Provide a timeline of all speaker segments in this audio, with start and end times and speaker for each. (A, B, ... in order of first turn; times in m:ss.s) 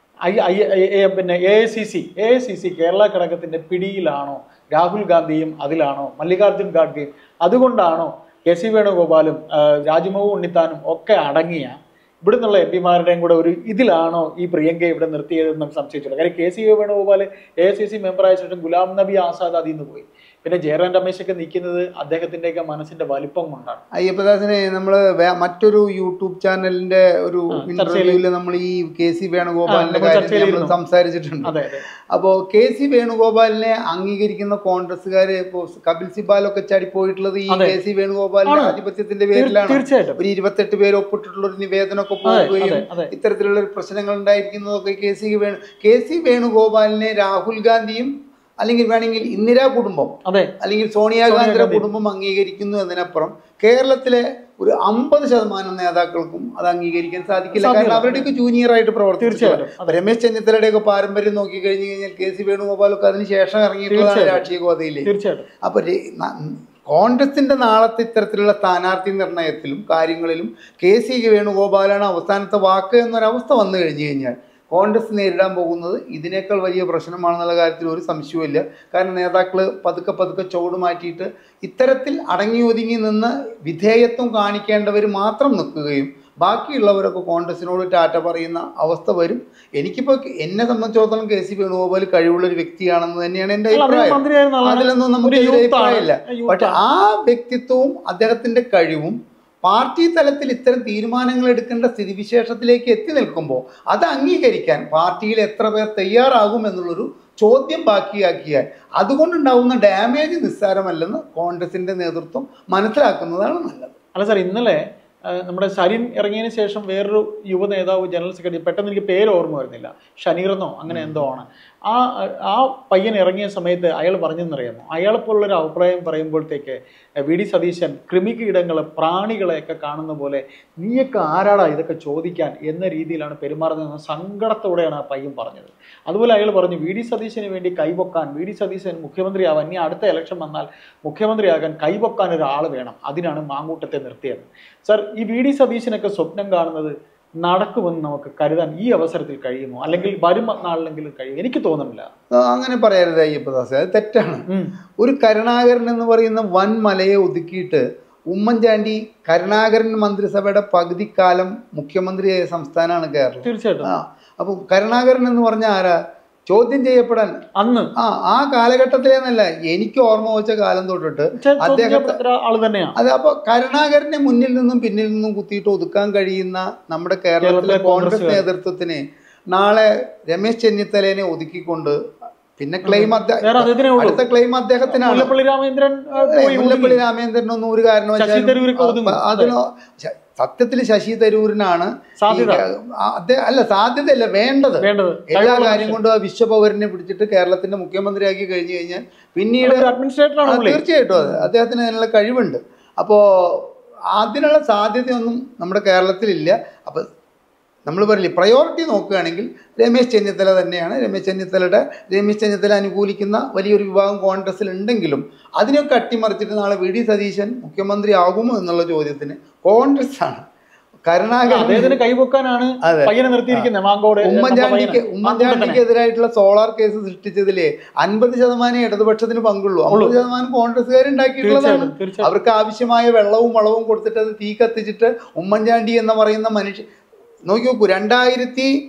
0:00.3-0:23.8 A
0:24.0-0:31.5 B
0:27.5-0:28.2 A
0:29.7-0:30.7 A
0:31.4-0:31.8 A
0:32.1-1:05.1 B
0:37.5-0:37.8 A
0:38.5-0:38.8 A
0:39.4-0:40.2 A
0:42.3-0:43.1 A
0:50.3-0:50.5 A
0:51.3-0:51.8 A
0:57.6-0:58.3 A
0:59.2-1:00.0 A
1:03.9-1:04.4 A
1:05.1-1:05.5 A
1:05.6-1:53.9 B
1:33.7-1:36.8 A
1:54.2-2:32.1 A
2:00.9-2:01.3 B
2:32.3-2:34.5 B
2:34.5-2:34.7 A
2:35.0-2:46.0 B
2:43.4-2:43.9 A
2:46.5-2:47.4 B
2:47.6-2:47.9 A
2:48.0-2:52.2 B
2:51.4-2:53.0 A
2:53.0-2:59.0 B
2:57.4-2:58.4 A
2:59.5-3:02.0 B
3:02.6-3:05.3 B
3:02.8-3:04.2 A
3:04.9-3:07.0 A
3:06.2-3:19.9 B
3:08.2-3:09.6 A
3:12.2-3:12.6 A
3:14.8-3:16.0 A
3:19.6-3:21.5 A
3:20.5-3:27.0 B
3:27.9-3:40.4 B
3:41.1-3:42.0 B
3:41.5-3:45.8 A
3:42.8-3:43.7 B
3:44.2-3:56.8 B
3:49.9-3:50.2 A
3:51.4-3:52.3 A
3:57.5-3:58.8 B